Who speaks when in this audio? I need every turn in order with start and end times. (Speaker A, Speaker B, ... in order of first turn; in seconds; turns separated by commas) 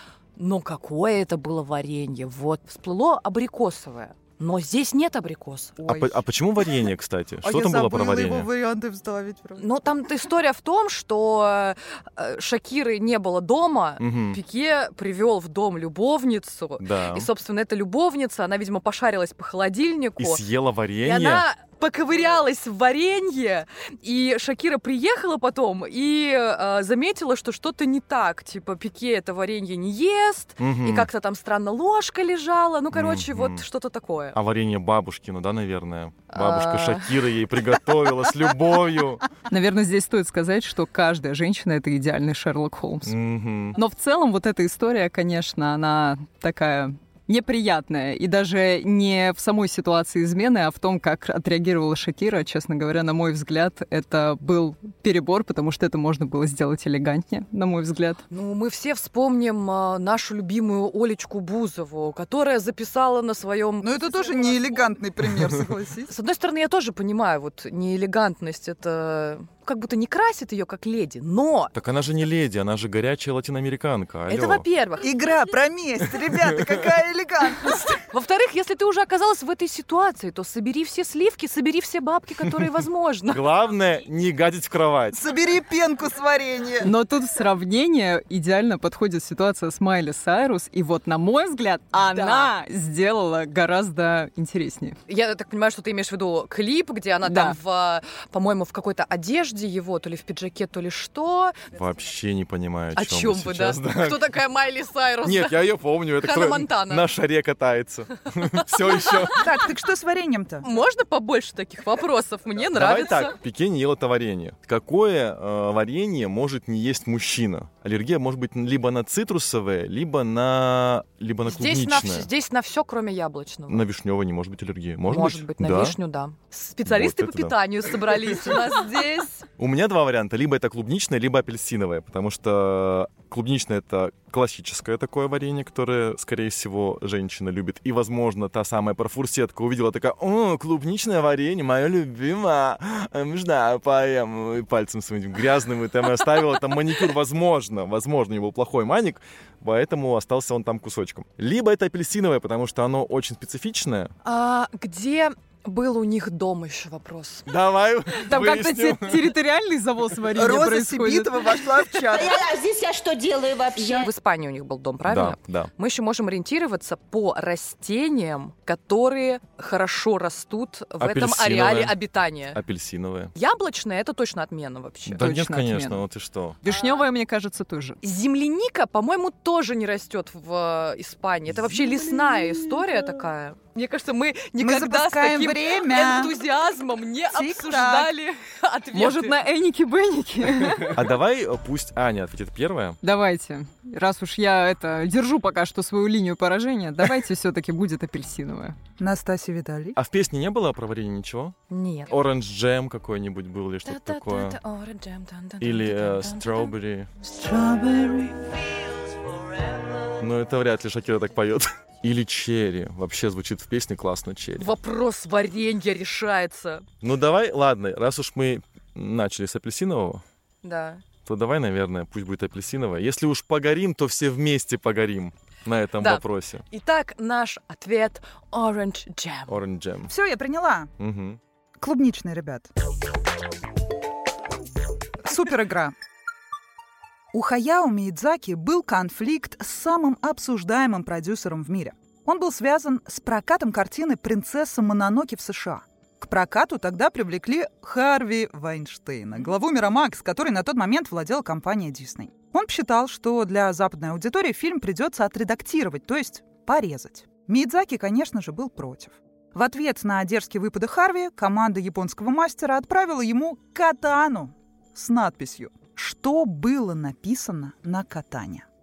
Speaker A: 0.4-5.8, Speaker B: 5.8-6.2, Speaker C: 5.8-8.5, Speaker B: 7.4-9.6, Speaker A: 9.6-20.4, Speaker C: 14.0-14.4, Speaker C: 16.8-17.3, Speaker C: 20.2-21.5, Speaker A: 21.0-34.4, Speaker C: 30.6-31.1, Speaker C: 32.9-33.6, Speaker C: 34.3-39.2, Speaker A: 36.3-37.2, Speaker D: 39.5-43.2, Speaker C: 43.0-43.8, Speaker D: 43.7-58.2, Speaker A: 58.3-64.8, Speaker B: 63.8-66.1, Speaker A: 66.1-71.7, Speaker C: 71.7-74.6, Speaker A: 74.3-75.2, Speaker B: 75.0-78.0, Speaker A: 78.1-83.4, Speaker C: 83.3-85.2, Speaker B: 85.1-86.9, Speaker D: 86.8-95.0, Speaker A: 92.1-92.5, Speaker A: 95.1-101.6, Speaker D: 97.2-97.6, Speaker C: 101.7-104.3, Speaker A: 103.0-107.1, Speaker C: 105.2-109.5, Speaker A: 108.8-109.3, Speaker B: 109.4-110.7, Speaker A: 110.6-113.3, Speaker C: 112.7-122.3, Speaker A: 121.5-123.8, Speaker C: 123.7-126.0, Speaker A: 125.1-129.4, Speaker C: 126.9-127.6, Speaker C: 129.6-154.1, Speaker A: 154.2-157.4, Speaker C: 157.4-159.3, Speaker D: 158.2-161.6, Speaker B: 160.3-162.4, Speaker E: 162.1-164.1, Speaker A: 163.8-172.6, Speaker C: 165.1-165.7, Speaker C: 171.0-171.9, Speaker C: 172.5-173.3, Speaker A: 173.4-175.2, Speaker C: 175.1-176.6, Speaker D: 175.2-176.0, Speaker D: 176.6-178.0, Speaker A: 178.0-189.4, Speaker D: 182.2-182.6, Speaker B: 184.6-186.3, Speaker B: 187.3-188.1, Speaker D: 188.9-191.0, Speaker C: 190.9-193.0, Speaker D: 193.0-198.8, Speaker B: 199.0-200.0, Speaker C: 199.9-201.6, Speaker A: 201.7-202.2, Speaker C: 202.1-204.6, Speaker A: 203.8-206.7, Speaker C: 205.6-207.1, Speaker B: 207.4-208.3, Speaker A: 208.5-210.0, Speaker C: 210.1-214.7, Speaker A: 214.6-216.8, Speaker C: 217.0-220.2, Speaker A: 220.6-221.0, Speaker C: 221.3-226.6, Speaker A: 226.0-229.6, Speaker C: 229.5-230.1, Speaker B: 230.1-230.9, Speaker C: 231.0-231.4, Speaker B: 231.8-232.7, Speaker B: 235.2-235.9, Speaker B: 237.3-268.6